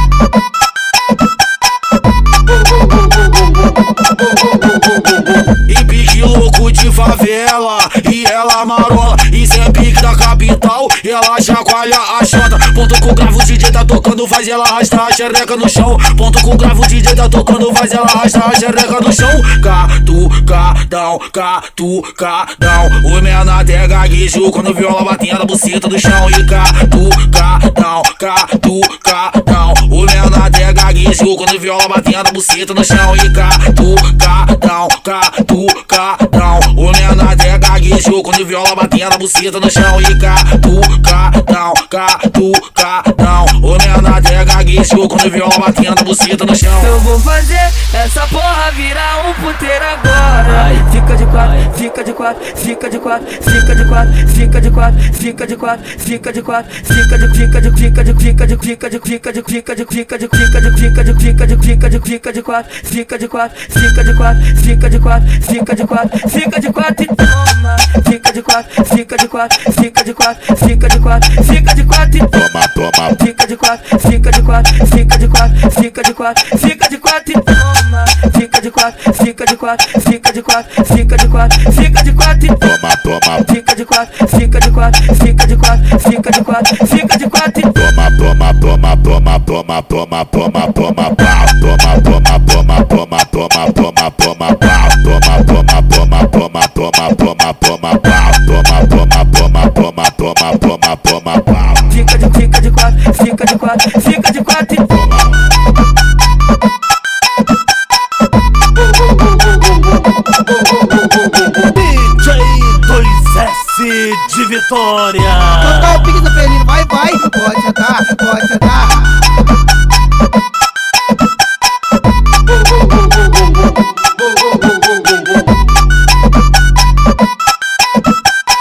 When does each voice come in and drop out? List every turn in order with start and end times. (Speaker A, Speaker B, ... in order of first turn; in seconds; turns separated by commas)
Speaker A: 5.7-47.0, Speaker B: 46.8-72.4, Speaker A: 50.5-50.8, Speaker C: 72.5-73.1, Speaker B: 73.1-82.7, Speaker C: 82.7-83.4, Speaker B: 83.4-87.9, Speaker C: 87.9-101.7, Speaker B: 101.9-105.1, Speaker D: 111.6-116.1, Speaker E: 115.6-119.4